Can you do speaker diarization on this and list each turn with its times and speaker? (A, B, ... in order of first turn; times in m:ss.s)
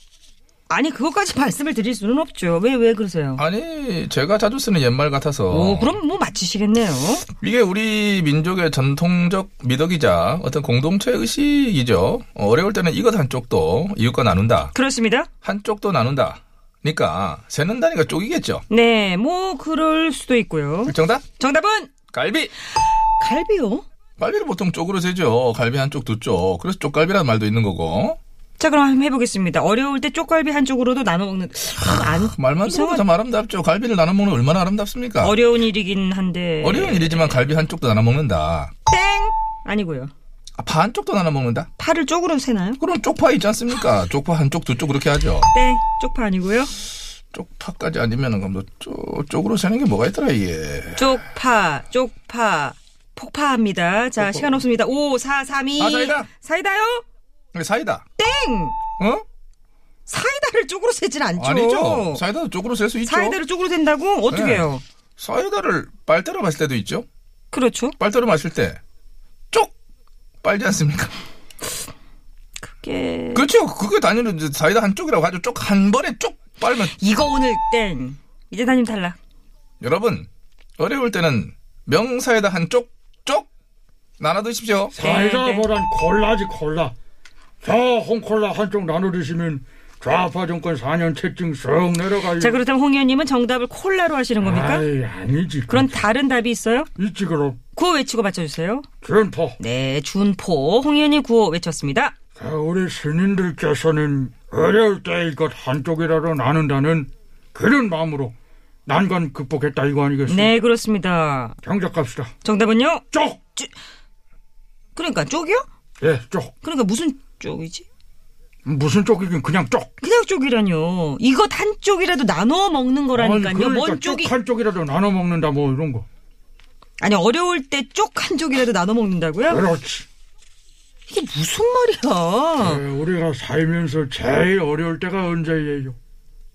0:00.7-0:03.4 A
0:03.4-0:06.0 B
0:05.5-0:07.3 A
0:07.4-0:14.7 B
0:14.7-0:15.3 A
0:15.4-0:18.6 B
0:18.7-0:21.9 A
0:20.9-0:21.2 B
0:22.1-0:22.5 B
0:23.2-0:23.8 A
0:24.2-0:28.2 B
0:28.6-0:33.1 A
0:32.1-0:35.4 B
0:35.2-0:37.4 A
0:36.6-0:38.7 B
0:38.9-0:40.1 A
0:40.6-0:41.7 B
0:41.8-0:42.8 A
0:42.8-0:45.5 B
0:45.5-0:46.7 A
0:47.3-0:51.1 B
0:51.0-0:57.0 A
0:54.2-0:54.5 B
0:55.8-0:56.3 B
0:57.5-0:58.0 B
0:58.2-0:58.8 A
0:59.0-0:59.2 B
1:00.1-1:02.2 A
1:01.4-1:03.4 B
1:03.0-1:04.8 A
1:04.3-1:07.1 B
1:07.5-1:08.0 A
1:08.0-1:08.8 B
1:10.4-1:11.2 B
1:12.6-1:13.5 A
1:13.3-1:17.0 B
1:16.7-1:19.2 A
1:19.8-1:23.5 B
1:24.2-1:25.0 B
1:24.9-1:27.0 C
1:25.0-1:25.7 A
1:27.6-1:32.6 C
1:32.3-1:34.9 A
1:34.4-1:36.0 C
1:35.7-1:36.9 A
1:37.0-1:37.6 C
1:37.8-1:38.8 A
1:39.0-1:39.6 C
1:39.6-1:42.2 A
1:42.4-1:48.4 C
1:48.9-1:50.5 C
1:50.3-1:51.6 A
1:51.6-1:52.3 C
1:52.4-1:53.0 A
1:53.1-1:53.4 C
1:55.0-1:55.6 A
1:56.0-1:56.5 C
1:56.6-1:57.9 A
1:58.7-1:59.9 C
2:00.0-2:04.3 A
2:03.2-2:06.1 C
2:07.0-2:09.6 A
2:09.5-2:10.1 C
2:11.1-2:12.8 A
2:12.6-2:16.0 C